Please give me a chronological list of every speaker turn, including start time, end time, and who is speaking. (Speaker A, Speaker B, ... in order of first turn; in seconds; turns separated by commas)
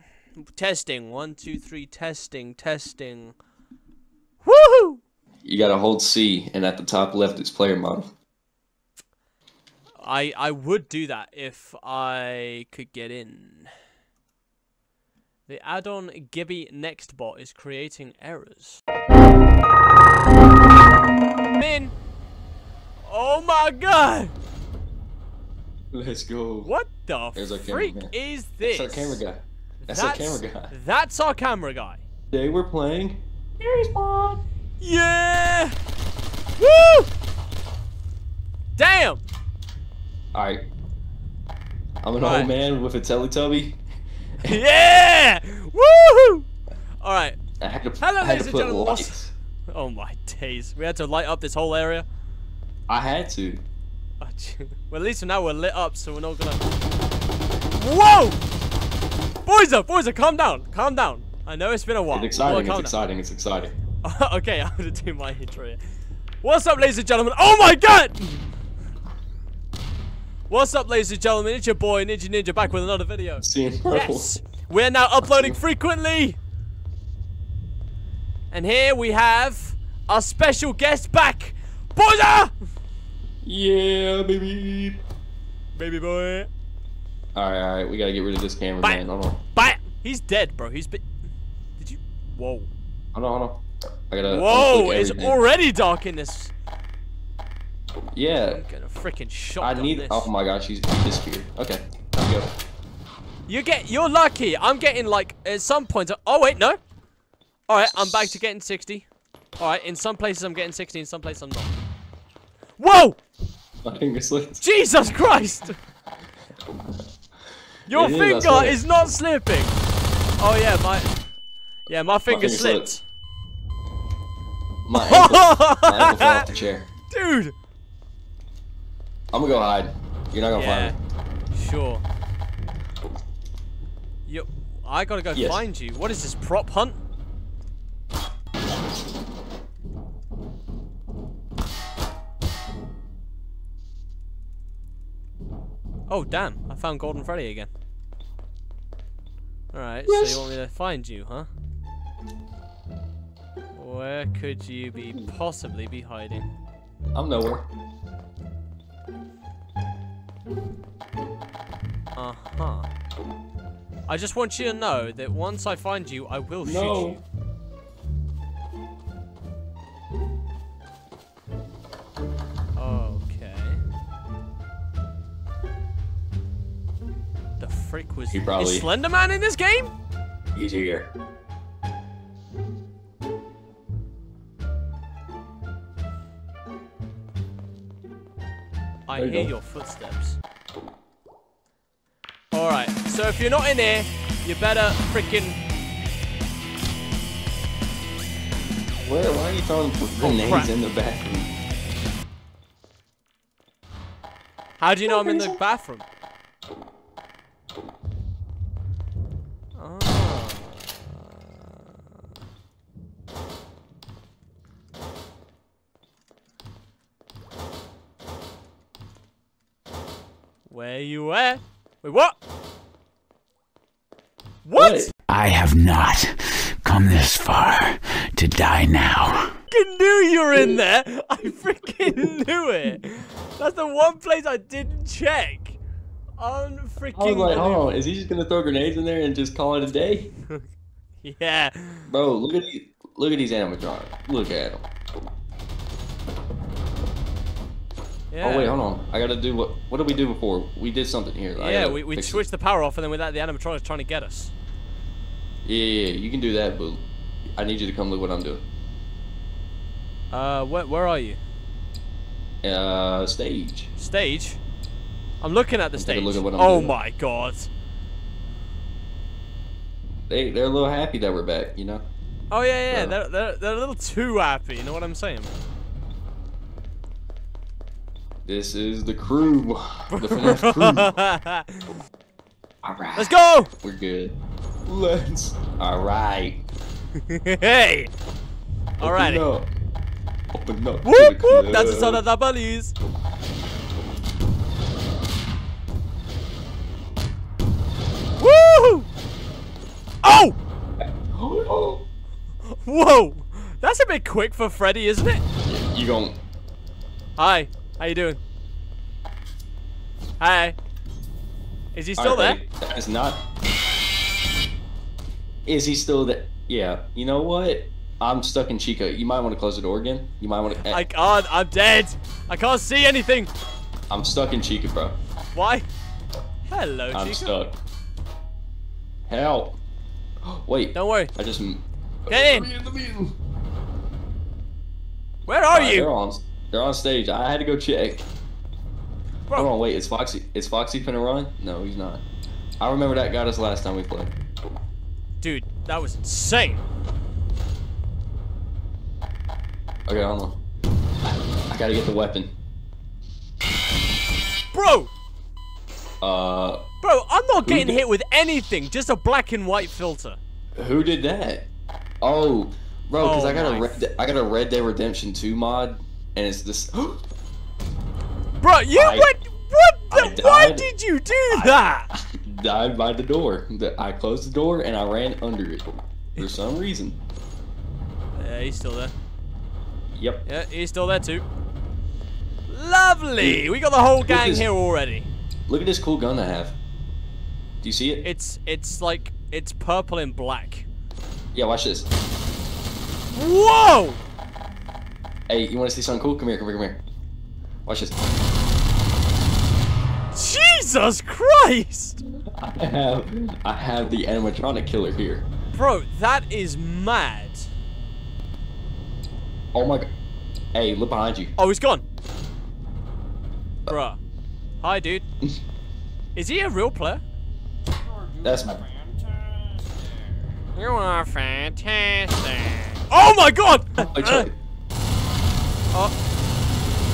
Speaker A: 0.4-3.4, Speaker A: 4.4-5.0, Speaker B: 5.4-8.1, Speaker A: 10.0-13.7, Speaker A: 15.5-18.8, Speaker A: 21.5-21.9, Speaker A: 23.1-24.3, Speaker B: 25.9-26.7, Speaker A: 26.6-29.2, Speaker B: 27.4-30.7, Speaker A: 29.8-32.0, Speaker B: 32.3-34.4, Speaker A: 34.8-35.8, Speaker A: 36.6-37.1, Speaker A: 38.8-39.2, Speaker B: 40.3-40.7, Speaker B: 42.0-43.8, Speaker A: 42.2-42.5, Speaker A: 44.4-46.5, Speaker A: 47.0-47.4, Speaker B: 47.6-49.3, Speaker A: 48.0-49.2, Speaker A: 49.7-52.1, Speaker B: 52.9-53.6, Speaker A: 54.2-56.6, Speaker A: 57.7-58.4, Speaker A: 59.5-63.0, Speaker B: 62.1-63.7, Speaker A: 64.0-65.8, Speaker A: 66.4-68.5, Speaker A: 70.5-76.4, Speaker B: 73.4-74.4, Speaker B: 75.2-75.6, Speaker A: 78.5-82.5, Speaker B: 83.4-85.0, Speaker A: 85.8-86.5, Speaker B: 87.3-89.4, Speaker A: 88.8-91.0, Speaker A: 91.8-92.7, Speaker B: 93.1-95.4, Speaker A: 94.2-96.5, Speaker B: 98.1-98.6, Speaker A: 98.5-100.3, Speaker B: 99.6-102.5, Speaker A: 103.5-106.8, Speaker A: 107.7-109.1, Speaker B: 107.9-108.4, Speaker A: 109.6-111.8, Speaker A: 112.8-113.2, Speaker B: 113.8-114.6, Speaker A: 114.6-115.8, Speaker A: 117.9-119.8, Speaker B: 117.9-118.8, Speaker A: 120.4-121.2, Speaker A: 121.9-123.0, Speaker B: 122.3-122.9, Speaker B: 124.8-126.9, Speaker A: 125.0-126.5, Speaker A: 127.1-127.5, Speaker B: 129.3-130.9, Speaker A: 130.5-131.0, Speaker A: 131.5-132.0, Speaker A: 134.3-137.0, Speaker B: 135.3-135.6, Speaker A: 146.1-147.7, Speaker A: 149.7-151.5, Speaker B: 150.1-150.6, Speaker A: 153.7-156.5, Speaker B: 157.2-157.7, Speaker A: 162.2-162.9, Speaker A: 164.1-167.2, Speaker B: 166.6-167.2, Speaker A: 172.8-173.8, Speaker A: 177.6-179.9, Speaker B: 178.3-178.9, Speaker B: 180.5-181.1, Speaker A: 189.1-190.4, Speaker B: 189.2-189.5, Speaker A: 192.5-195.6, Speaker B: 199.0-201.5, Speaker A: 200.1-200.7, Speaker A: 204.8-206.1, Speaker B: 205.0-205.6, Speaker A: 209.8-211.8, Speaker A: 220.7-222.4, Speaker A: 224.6-225.1, Speaker B: 224.8-225.1, Speaker C: 225.3-229.6, Speaker A: 229.7-235.8, Speaker A: 236.4-238.0, Speaker B: 237.1-240.3, Speaker A: 241.2-242.1, Speaker B: 242.1-244.9, Speaker A: 248.3-248.8, Speaker B: 248.4-252.4, Speaker A: 251.6-254.5, Speaker B: 255.7-257.1, Speaker B: 257.6-258.6, Speaker A: 260.3-261.4, Speaker B: 262.6-263.9, Speaker A: 264.0-264.6, Speaker A: 265.4-267.7, Speaker B: 266.0-267.0, Speaker B: 270.3-272.1, Speaker A: 272.5-275.5, Speaker B: 272.9-273.2, Speaker B: 278.5-281.2, Speaker A: 280.1-282.0, Speaker B: 282.8-286.6, Speaker A: 283.2-283.7, Speaker A: 287.2-288.1, Speaker A: 289.0-289.4, Speaker B: 289.0-289.7, Speaker B: 290.5-292.2, Speaker A: 291.1-292.9, Speaker A: 298.4-299.1, Speaker A: 300.2-300.6, Speaker B: 301.3-302.1, Speaker A: 302.7-305.4, Speaker B: 305.6-306.4, Speaker A: 307.4-308.4, Speaker A: 310.4-310.8, Speaker A: 311.9-312.6, Speaker B: 312.2-313.4, Speaker B: 315.7-321.1, Speaker A: 320.9-323.5, Speaker B: 324.1-325.2, Speaker A: 325.5-325.9, Speaker A: 326.6-327.6, Speaker B: 327.1-327.8, Speaker B: 329.3-329.8, Speaker B: 330.4-333.4, Speaker A: 330.9-331.3, Speaker A: 332.3-332.7, Speaker A: 335.5-336.1, Speaker B: 335.7-338.3, Speaker B: 339.6-342.2, Speaker B: 342.8-344.3, Speaker A: 345.4-346.9, Speaker B: 350.1-350.6, Speaker B: 351.2-352.5, Speaker A: 354.7-355.1, Speaker B: 356.2-356.9, Speaker A: 357.0-360.4, Speaker B: 357.6-358.0, Speaker B: 360.8-361.7, Speaker B: 362.2-367.2, Speaker A: 363.2-364.0, Speaker A: 368.6-372.1, Speaker B: 368.9-369.3, Speaker B: 370.1-370.9, Speaker B: 371.5-375.9, Speaker B: 376.4-377.2, Speaker A: 378.4-379.1, Speaker B: 380.1-380.4, Speaker A: 380.5-381.4, Speaker A: 382.7-385.3, Speaker B: 383.4-383.7, Speaker B: 384.2-384.7, Speaker B: 385.7-386.8, Speaker B: 387.8-388.2, Speaker A: 388.2-390.9, Speaker B: 391.5-392.1, Speaker A: 393.3-394.2, Speaker B: 395.5-397.0, Speaker B: 397.9-398.2, Speaker A: 400.3-402.2, Speaker B: 402.4-405.5, Speaker A: 405.7-407.7, Speaker B: 409.7-410.1, Speaker B: 410.8-411.6, Speaker A: 411.6-412.0, Speaker A: 413.9-414.2, Speaker A: 414.8-415.3, Speaker A: 416.4-417.2, Speaker B: 418.4-418.8, Speaker A: 420.8-424.5, Speaker B: 424.0-424.5